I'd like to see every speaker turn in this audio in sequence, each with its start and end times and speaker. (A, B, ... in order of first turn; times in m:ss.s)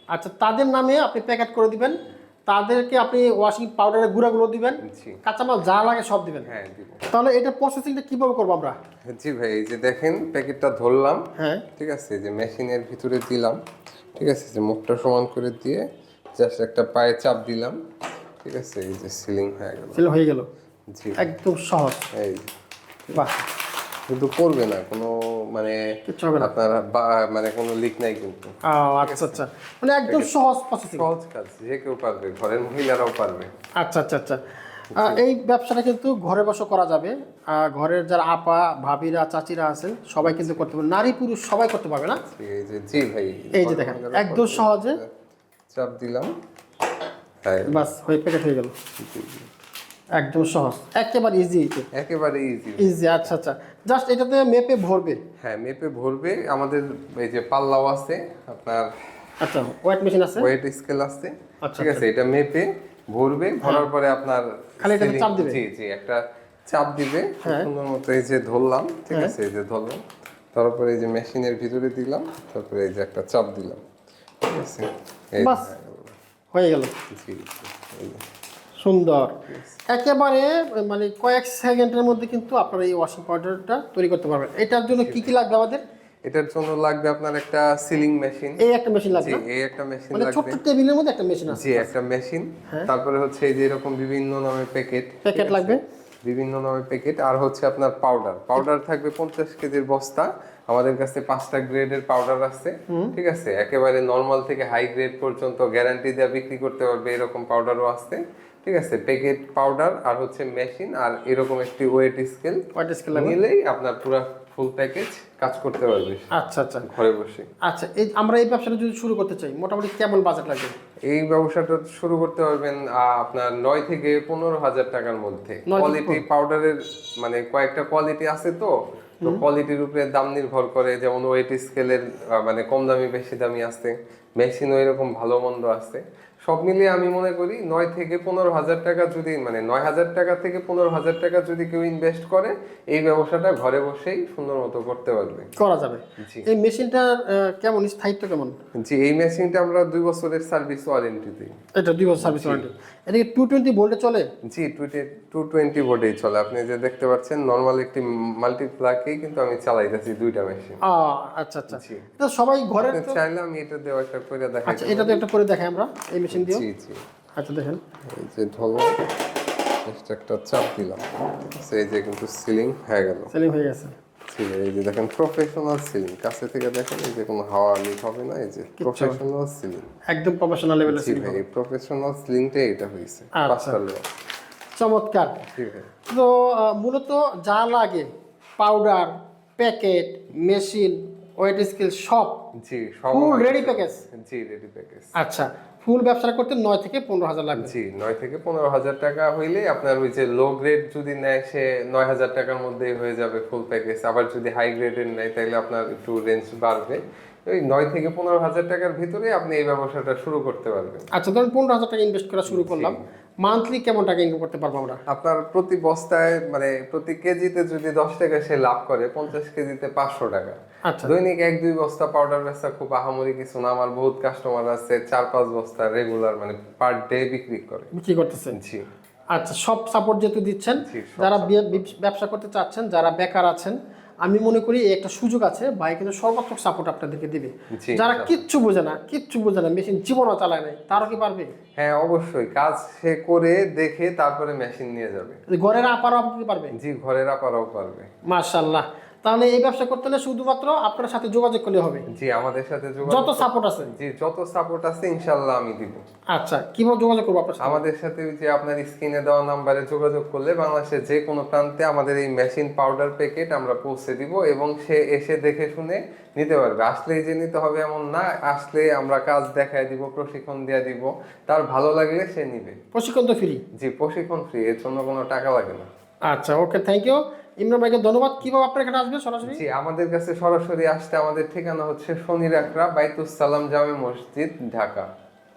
0:00.1-0:06.5 A
0:04.8-0:05.2 B
0:06.4-0:07.0 B
0:07.1-0:08.8 A
0:09.1-0:11.2 B
0:11.4-0:11.6 A
0:11.8-0:13.6 B
0:14.2-0:15.8 B
0:16.4-0:17.8 B
0:18.4-0:20.0 B
0:19.9-0:20.5 A
0:20.9-0:21.2 B
0:21.2-0:22.0 A
0:22.1-0:22.5 B
0:23.1-0:23.4 A
0:24.1-0:25.8 B
0:26.1-0:26.5 A
0:26.4-0:29.4 B
0:28.8-0:31.1 A
0:30.9-0:33.5 B
0:33.8-0:34.4 A
0:34.9-0:42.2 A
0:34.9-0:35.2 B
0:40.2-0:40.7 B
0:42.2-0:45.1 B
0:43.6-0:45.0 A
0:45.7-0:46.3 B
0:47.4-0:47.9 B
0:47.7-0:48.7 A
0:49.0-0:49.5 B
0:50.2-0:51.9 A
0:51.9-0:53.3 B
0:52.8-0:55.2 A
0:55.4-0:58.9 B
0:59.4-1:00.5 A
1:00.4-1:10.0 B
1:01.6-1:02.0 A
1:03.6-1:03.9 A
1:04.8-1:05.6 A
1:10.5-1:13.8 B
1:14.4-1:16.2 B
1:15.4-1:15.7 A
1:16.5-1:16.9 A
1:17.1-1:18.2 B
1:18.8-1:19.3 A
1:19.5-1:19.8 B
1:19.9-1:25.8 A
1:24.9-1:25.3 B
1:26.3-1:28.6 B
1:28.6-1:29.4 A
1:29.1-1:30.6 B
1:30.1-1:31.9 A
1:31.5-1:56.2 B
1:35.3-1:35.8 A
1:52.8-1:53.4 A
1:56.4-1:56.8 A
1:56.8-1:57.5 B
1:57.7-2:00.7 A
2:01.1-2:25.5 B
2:05.7-2:06.2 A
2:25.6-2:28.6 A
2:26.2-2:26.4 B
2:28.8-2:31.5 B
2:31.8-2:34.2 A
2:32.2-2:32.7 B
2:34.5-2:40.8 B
2:40.9-2:43.2 A
2:41.7-2:42.1 B
2:42.8-2:45.2 B
2:44.6-2:46.6 A
2:46.3-2:47.0 B
2:47.4-2:47.8 A
2:48.1-2:49.0 B
2:49.9-2:53.3 B
2:53.3-2:53.9 A
2:54.3-2:59.9 B
2:58.8-2:59.2 A
3:00.1-3:01.4 A
3:00.9-3:04.0 B
3:03.4-3:03.8 A
3:04.8-3:05.4 A
3:05.4-3:05.9 B
3:06.1-3:08.1 A
3:08.6-3:12.4 A
3:12.6-3:15.1 B
3:13.1-3:14.0 A
3:15.2-3:17.7 A
3:17.6-3:31.1 B
3:31.2-3:35.0 A
3:32.5-3:33.0 B
3:35.1-3:47.9 B
3:40.9-3:41.1 A
3:48.0-3:48.5 A
3:48.5-3:48.8 B
3:49.3-4:01.5 A
3:50.8-3:51.9 B
3:57.7-3:58.4 B
4:00.9-4:01.2 B
4:01.8-4:05.4 B
4:05.5-4:06.7 A
4:06.8-4:08.1 B
4:08.3-4:12.0 A
4:12.1-4:16.0 B
4:13.1-4:13.9 A
4:16.3-4:17.8 A
4:17.6-4:32.8 B
4:32.9-4:33.6 A
4:33.8-4:35.9 B
4:36.3-4:39.6 A
4:39.4-4:45.1 B